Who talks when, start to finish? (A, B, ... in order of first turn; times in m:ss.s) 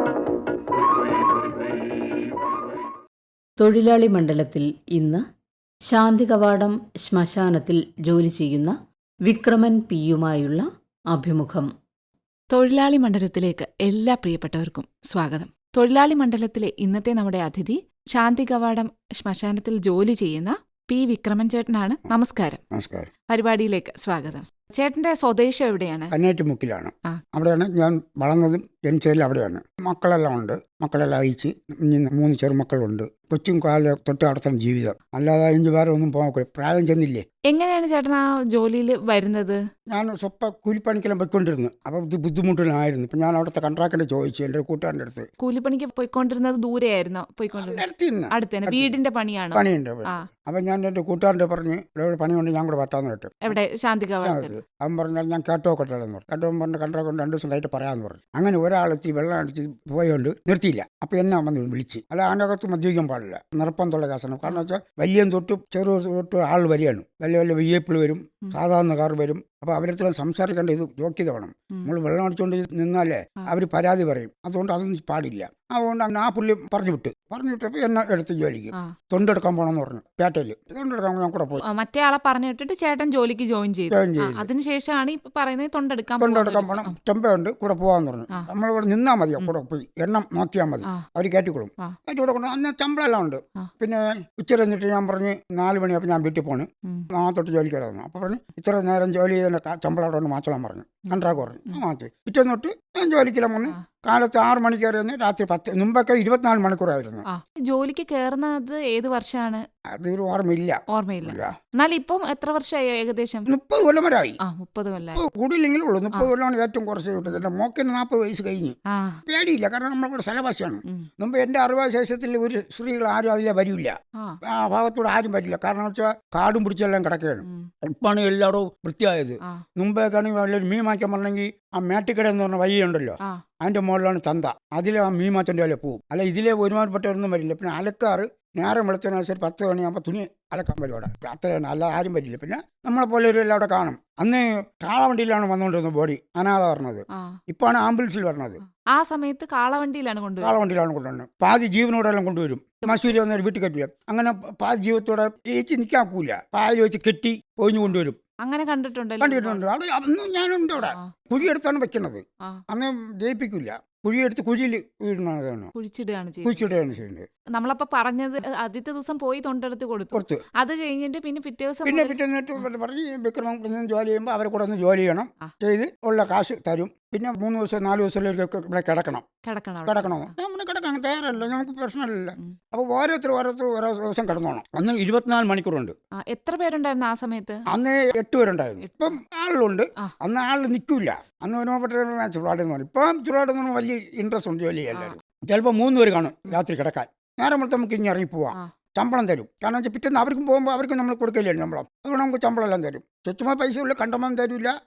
0:03.6-0:05.2 A
0:05.9-0:11.7 A
0:12.5-0:22.6 B
0:22.7-0:23.1 C
0:23.3-0:26.1 B
0:26.1-0:37.2 C
0:37.5-0:39.6 B
0:39.9-0:45.3 C
0:45.4-0:50.2 B
0:47.5-0:49.0 C
0:49.5-0:53.6 C
0:53.4-0:54.6 B
0:54.2-1:21.6 C
1:21.6-1:27.0 B
1:23.9-1:24.5 C
1:26.2-1:47.2 C
1:41.1-1:41.8 B
1:47.3-1:49.6 B
1:49.9-1:51.5 C
1:50.9-1:53.5 B
1:53.5-1:54.4 C
1:54.4-1:55.2 B
1:55.1-2:03.9 C
1:58.9-1:59.2 B
2:04.4-2:28.6 C
2:07.4-2:07.7 B
2:28.8-2:30.6 B
2:30.4-2:38.2 C
2:32.8-2:33.2 B
2:38.4-2:39.6 B
2:39.2-2:45.7 C
2:40.8-2:41.1 B
2:45.7-2:46.7 B
2:46.4-2:47.3 C
2:47.5-2:52.7 B
2:50.1-2:50.4 C
2:51.8-2:59.3 C
2:59.4-3:00.3 B
2:59.8-3:05.9 C
3:06.3-3:07.6 B
3:07.7-3:24.7 C
3:08.8-3:09.2 B